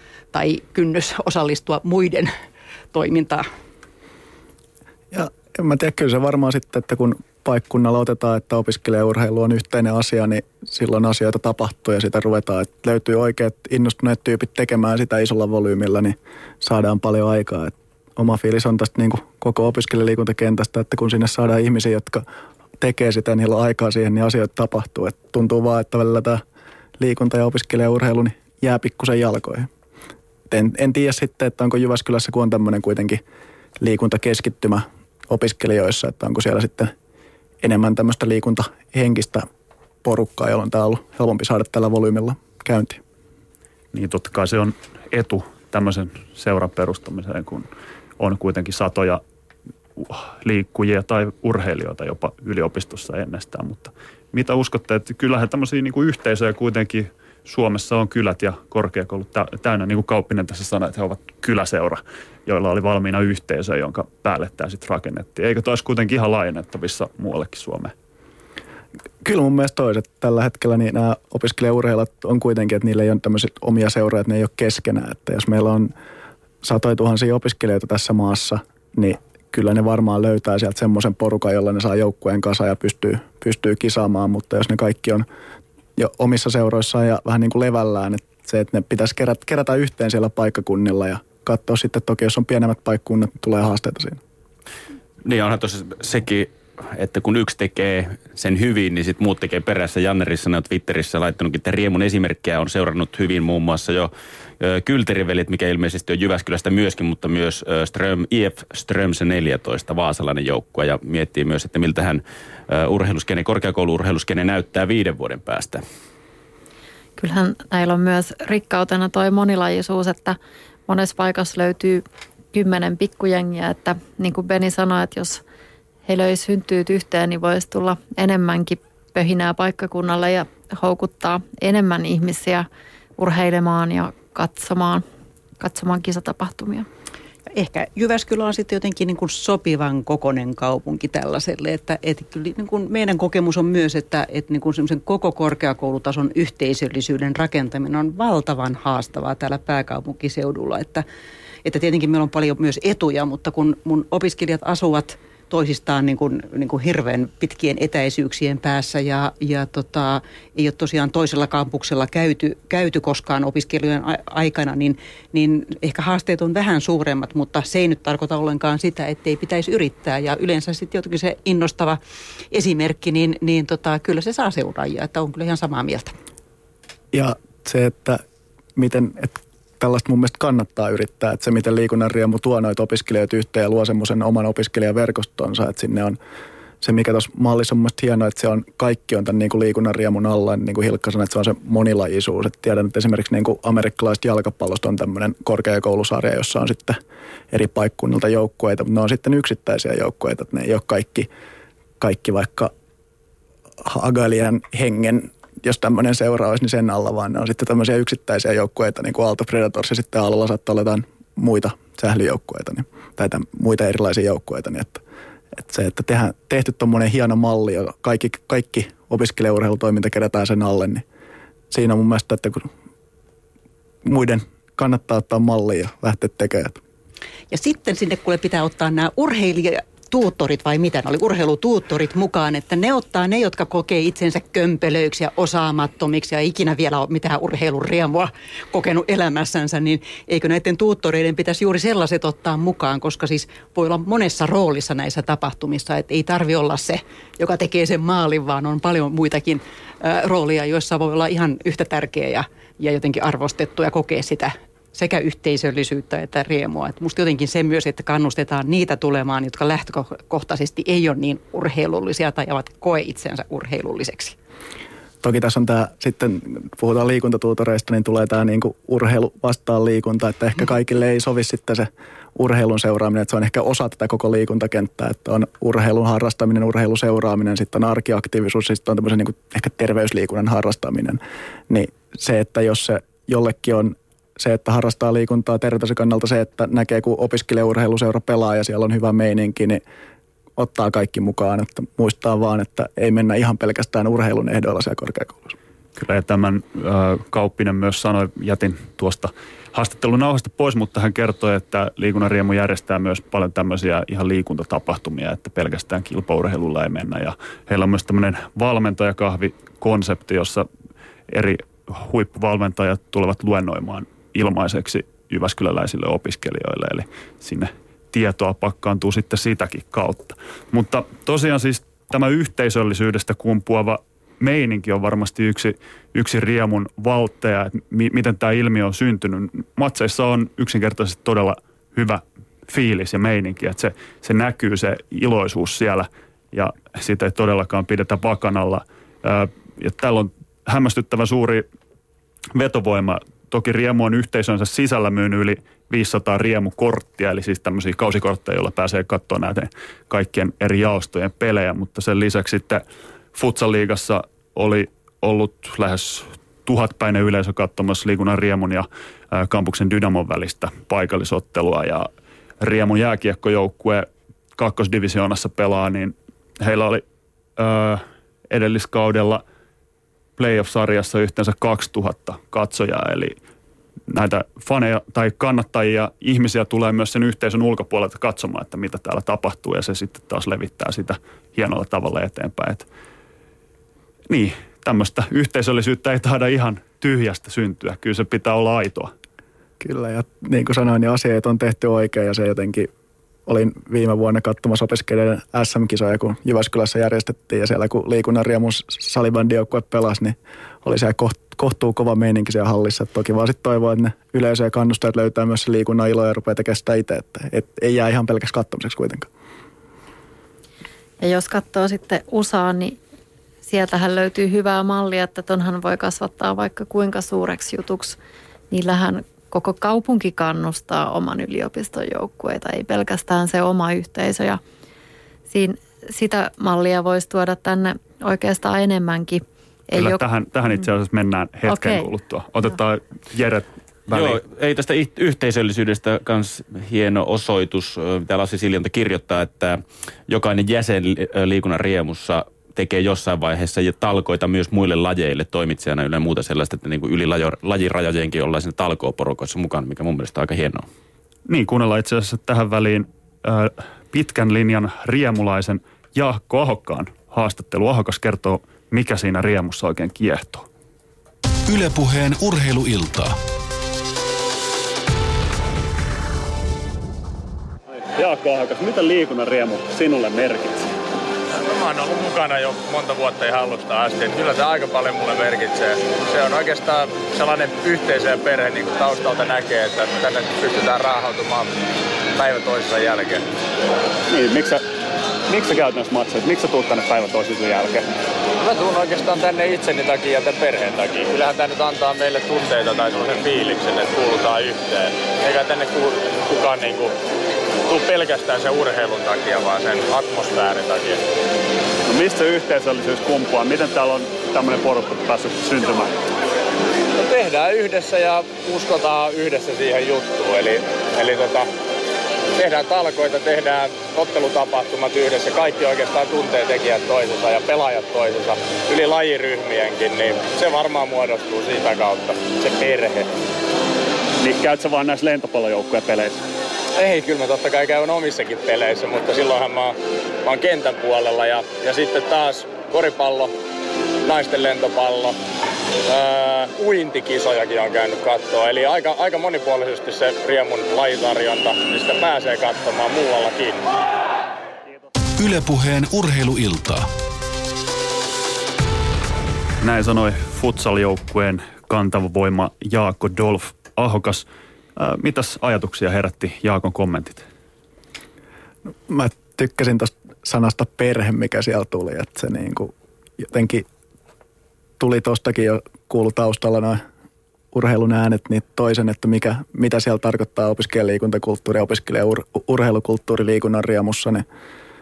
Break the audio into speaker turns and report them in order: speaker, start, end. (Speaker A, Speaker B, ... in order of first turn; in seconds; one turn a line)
Speaker A: 0.3-2.3
Speaker A: 2.9-3.5
Speaker B: 5.1-22.2
Speaker B: 22.8-26.4
Speaker B: 27.0-29.7
Speaker B: 30.5-33.2
Speaker B: 33.8-36.9
Speaker B: 37.6-39.5
Speaker B: 40.0-43.0
Speaker C: 43.9-47.7
Speaker C: 48.2-49.2
Speaker C: 50.0-67.9
Speaker B: 69.2-75.9
Speaker B: 76.6-85.2
Speaker B: 86.0-94.2
Speaker D: 95.2-115.8
Speaker E: 117.2-125.4
Speaker E: 126.1-135.0
Speaker E: 135.6-136.9
Speaker A: 137.5-151.1
Speaker A: 151.7-172.0
Speaker A: 172.5-176.1
Speaker B: 177.1-178.2
Speaker B: 178.8-186.2
Speaker B: 186.8-197.0
Speaker B: 197.5-201.3
Speaker B: 202.0-202.7
Speaker B: 203.8-215.0
Speaker B: 215.6-221.0
Speaker B: 221.7-222.7
Speaker B: 224.0-226.8
Speaker A: 227.5-264.4
Speaker B: 265.2-289.8
Speaker B: 290.6-295.6
Speaker C: 296.0-310.7
Speaker C: 311.3-341.7
Speaker C: 342.5-367.0
Speaker C: 367.6-369.4
Speaker C: 370.4-373.4
Speaker C: 374.1-382.9
Speaker C: 384.3-389.1
Speaker B: 389.8-392.9
Speaker B: 393.5-409.3
Speaker E: 411.2-413.0
Speaker E: 413.6-418.2
Speaker E: 418.7-424.6
Speaker E: 425.5-430.2
Speaker C: 429.9-434.4
Speaker E: 431.7-432.1
Speaker D: 434.1-450.9
Speaker C: 451.5-460.7
Speaker F: 461.7-463.4
Speaker C: 468.1-470.9
Speaker G: 471.6-481.8
Speaker G: 482.4-483.4
Speaker C: 484.3-484.8
Speaker C: 485.5-488.1
Speaker G: 488.6-497.1
Speaker G: 497.9-501.2
Speaker C: 502.1-506.2
Speaker G: 507.1-511.7
Speaker G: 512.5-523.3
Speaker C: 524.4-526.4
Speaker G: 527.0-533.5
Speaker G: 534.2-535.4
Speaker G: 536.1-543.9
Speaker F: 545.4-547.1
Speaker C: 549.8-554.5
Speaker C: 555.0-557.5
Speaker B: 559.1-563.9
Speaker B: 565.0-567.0
Speaker B: 567.7-574.5